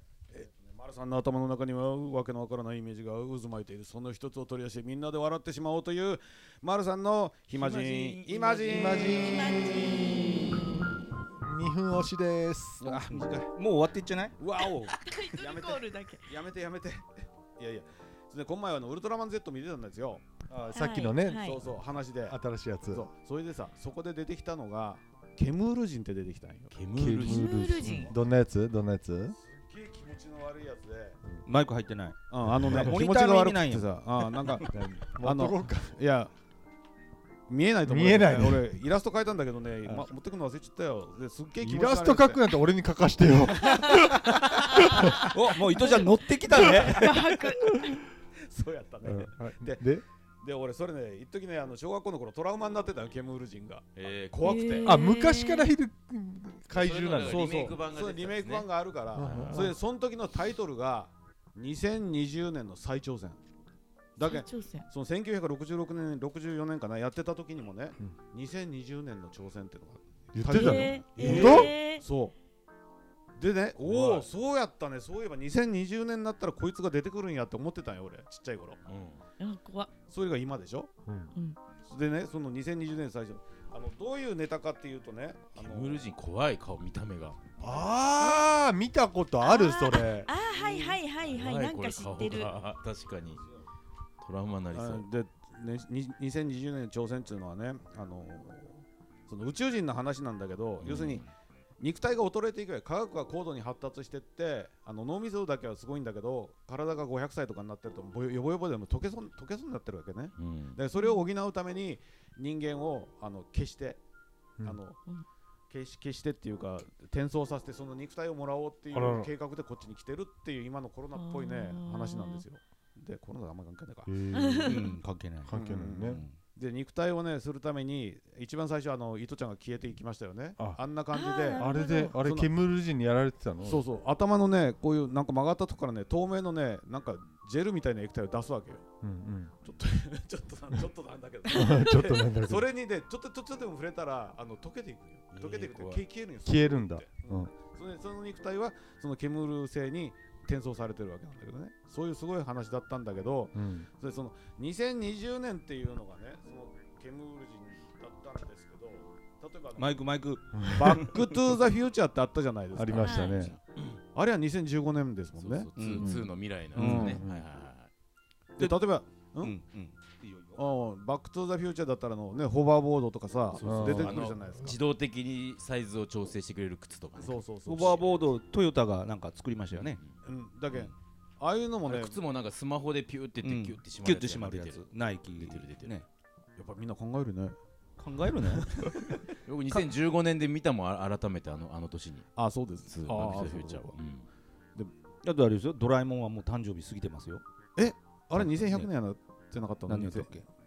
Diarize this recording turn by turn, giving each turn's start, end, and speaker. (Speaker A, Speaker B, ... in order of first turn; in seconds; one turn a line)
Speaker A: 0.3-10.2
Speaker B: 7.5-9.4
Speaker C: 8.7-10.8
Speaker D: 9.1-10.6
Speaker C: 11.4-13.1
Speaker E: 12.8-14.9
Speaker A: 14.4-20.4
Speaker D: 15.0-16.3
Speaker C: 20.5-21.6
Speaker D: 20.7-21.6
Speaker A: 21.4-26.7
Speaker C: 22.3-23.1
Speaker B: 26.7-27.9
Speaker C: 27.0-29.4
Speaker D: 27.1-28.1
Speaker E: 27.8-28.1
Speaker A: 29.3-31.2
Speaker E: 31.5-33.9
Speaker A: 32.3-36.3
Speaker C: 32.5-32.9
Speaker C: 34.7-36.0
Speaker A: 37.5-42.5
Speaker C: 37.9-38.7
Speaker C: 41.6-44.2
Speaker D: 43.7-44.0
Speaker A: 43.8-45.2
Speaker D: 44.8-45.1
Speaker C: 45.0-45.2
Speaker E: 45.3-47.1
Speaker D: 46.6-48.0
Speaker A: 48.4-49.9
Speaker C: 49.0-50.0
Speaker A: 50.4-54.9
Speaker B: 54.0-55.0
Speaker D: 54.4-55.7
Speaker C: 54.9-57.6
Speaker B: 56.7-59.7
Speaker A: 57.2-63.4
Speaker C: 59.1-59.7
Speaker A: 64.2-72.3
Speaker D: 64.2-64.9
Speaker C: 70.3-71.7
Speaker D: 70.5-72.0
Speaker B: 71.2-71.7
Speaker A: 73.4-78.8
Speaker B: 78.9-79.2
Speaker D: 79.4-79.9
Speaker A: 80.1-80.9
Speaker C: 81.1-81.3
Speaker A: 81.8-86.1
Speaker B: 85.6-87.4
Speaker C: 87.6-90.3
Speaker D: 89.4-92.5
Speaker B: 91.3-93.5
Speaker B: 94.2-95.1
Speaker A: 94.7-101.2
Speaker B: 100.8-101.3
Speaker A: 101.8-114.0
Speaker B: 110.4-110.8
Speaker D: 110.9-111.3
Speaker A: 114.6-115.0
Speaker A: 115.7-124.2
Speaker C: 118.9-119.3
Speaker D: 121.1-122.4
Speaker C: 124.1-124.9
Speaker D: 124.3-124.9
Speaker E: 124.7-126.4
Speaker C: 125.4-126.2
Speaker A: 125.5-132.5
Speaker D: 131.1-132.2
Speaker C: 131.5-133.8
Speaker A: 133.6-138.9
Speaker C: 139.0-139.5
Speaker A: 139.6-160.1
Speaker C: 141.5-142.7
Speaker D: 141.5-141.8
Speaker B: 145.3-146.0
Speaker C: 146.4-147.5
Speaker C: 153.6-153.9
Speaker E: 159.8-161.2
Speaker C: 160.6-161.1
Speaker A: 160.6-163.6
Speaker C: 162.8-163.6
Speaker D: 163.0-163.5
Speaker B: 163.6-164.0
Speaker A: 164.1-165.7
Speaker B: 165.4-167.9
Speaker E: 165.8-166.2
Speaker C: 166.0-167.4
Speaker E: 166.8-167.2
Speaker A: 166.8-167.3
Speaker A: 168.6-169.6
Speaker E: 168.6-170.6
Speaker A: 170.6-174.8
Speaker B: 173.5-178.1
Speaker C: 173.6-174.4
Speaker A: 177.2-178.3
Speaker E: 177.7-180.0
Speaker B: 179.8-180.2
Speaker A: 180.2-182.2
Speaker B: 181.9-186.0
Speaker E: 183.4-186.1
Speaker A: 186.6-187.6
Speaker E: 188.0-188.7
Speaker A: 188.6-189.2
Speaker B: 189.5-192.3
Speaker A: 192.4-194.0
Speaker B: 192.9-194.3
Speaker E: 195.2-197.4
Speaker A: 197.8-200.4
Speaker E: 198.3-198.9
Speaker E: 199.9-200.4